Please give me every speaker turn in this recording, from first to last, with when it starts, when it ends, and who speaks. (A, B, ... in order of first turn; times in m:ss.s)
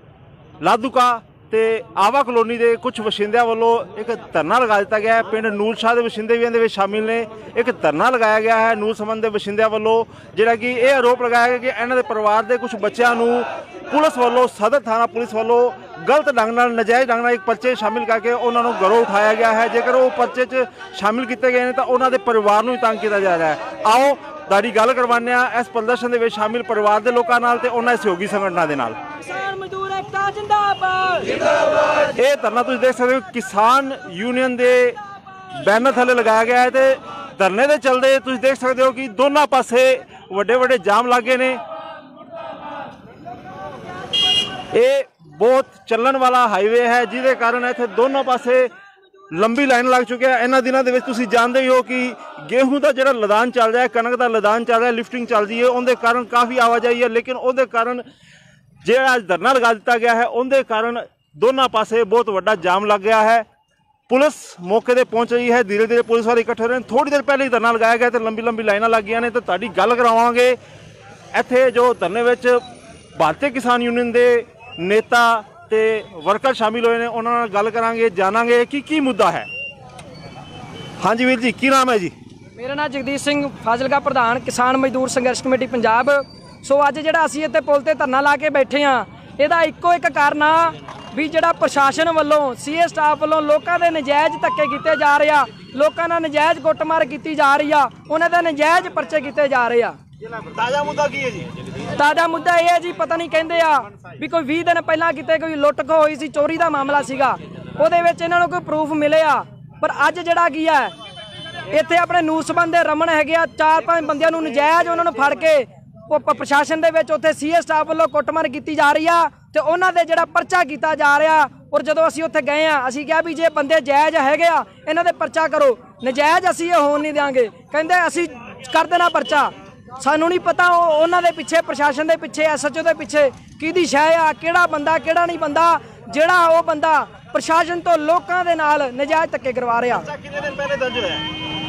0:00.6-0:29.0 A
0:29.2-0:31.4 B
0:32.0-0:35.0 A
0:35.5-0:41.6 A
0:44.7-0:48.7 A
0:49.3-0:58.0 A
0:58.8-1:03.4 A
1:04.1-1:10.6 A
1:11.3-1:12.6 A
1:13.2-1:19.5 A
1:21.0-1:22.1 A
1:22.6-1:40.0 B
1:40.3-1:41.5 A
1:42.0-1:50.9 B
1:51.7-2:20.1 B
2:19.9-2:21.2 A